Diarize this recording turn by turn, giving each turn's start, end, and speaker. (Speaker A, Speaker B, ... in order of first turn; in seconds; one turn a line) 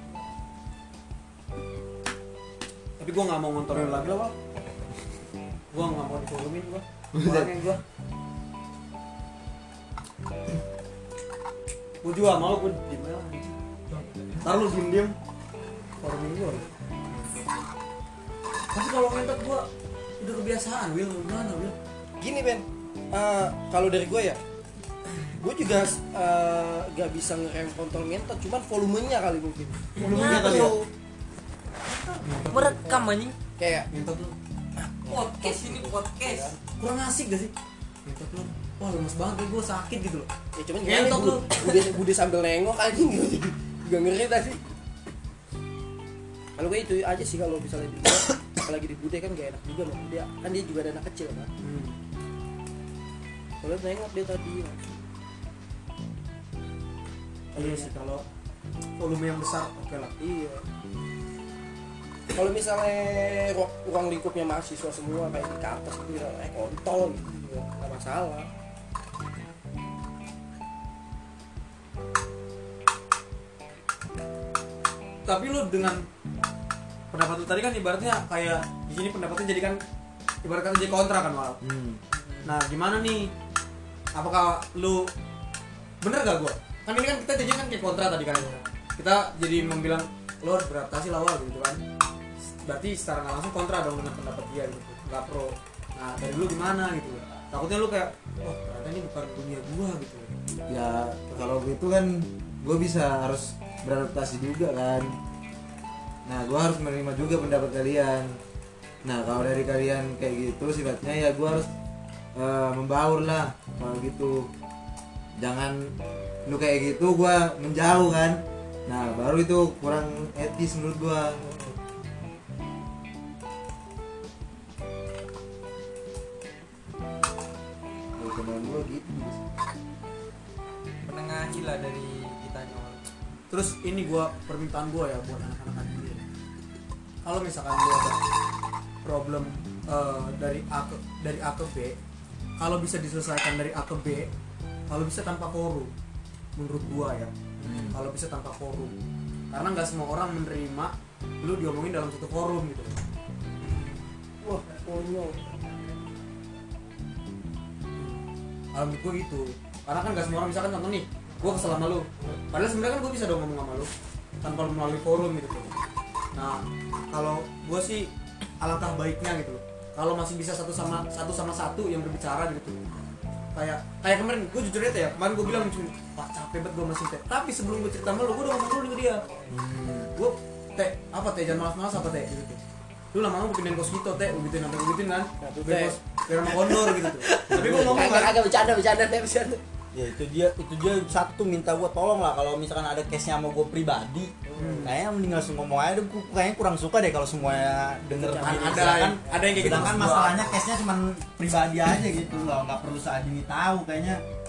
Speaker A: 3.0-4.3
Speaker A: 5.7-7.8
Speaker B: 7.2-7.6
Speaker A: 12.0-13.6
Speaker A: 14.4-15.2
Speaker A: 16.0-17.4
Speaker A: 18.7-19.7
Speaker A: 20.2-21.8
Speaker C: 22.2-24.4
Speaker C: 25.4-30.9
Speaker A: 30.0-30.8
Speaker D: 30.1-30.7
Speaker D: 32.0-33.4
Speaker A: 32.2-33.2
Speaker C: 33.6-33.9
Speaker A: 33.9-34.4
Speaker C: 34.8-36.6
Speaker D: 35.1-36.5
Speaker A: 35.5-35.9
Speaker A: 36.7-37.5
Speaker A: 38.0-40.3
Speaker C: 40.6-44.6
Speaker A: 40.8-41.8
Speaker C: 46.6-51.5
Speaker A: 51.6-52.0
Speaker C: 53.6-55.0
Speaker A: 57.5-58.2
Speaker C: 57.5-58.0
Speaker A: 59.0-60.1
Speaker C: 60.2-60.6
Speaker C: 62.3-68.5
Speaker A: 75.3-76.0
Speaker A: 77.1-79.8
Speaker A: 80.4-81.6
Speaker B: 81.6-82.0
Speaker D: 82.1-82.6
Speaker A: 82.5-83.3
Speaker A: 84.2-85.1
Speaker A: 86.0-91.8
Speaker A: 92.6-100.3
Speaker B: 100.7-105.1
Speaker B: 106.3-108.3
Speaker B: 109.0-111.7
Speaker B: 112.4-114.5
Speaker B: 115.4-115.8
Speaker B: 116.5-121.4
Speaker B: 128.2-129.4
Speaker D: 131.1-133.0
Speaker A: 133.5-136.2
Speaker A: 137.2-138.2
Speaker A: 139.0-142.0
Speaker A: 142.6-144.3
Speaker A: 144.9-145.9
Speaker A: 146.6-148.9
Speaker B: 147.6-148.0
Speaker A: 149.5-153.0
Speaker A: 153.6-154.1
Speaker C: 154.4-155.5
Speaker A: 158.7-163.9
Speaker A: 164.4-165.7
Speaker A: 166.3-172.8
Speaker A: 173.6-179.2
Speaker B: 179.5-180.1
Speaker A: 180.2-182.6
Speaker A: 183.1-188.4
Speaker C: 185.4-189.6
Speaker B: 187.5-188.0
Speaker E: 189.9-204.2
Speaker C: 194.5-194.9
Speaker A: 194.6-194.9
Speaker C: 198.1-200.3
Speaker A: 198.4-200.6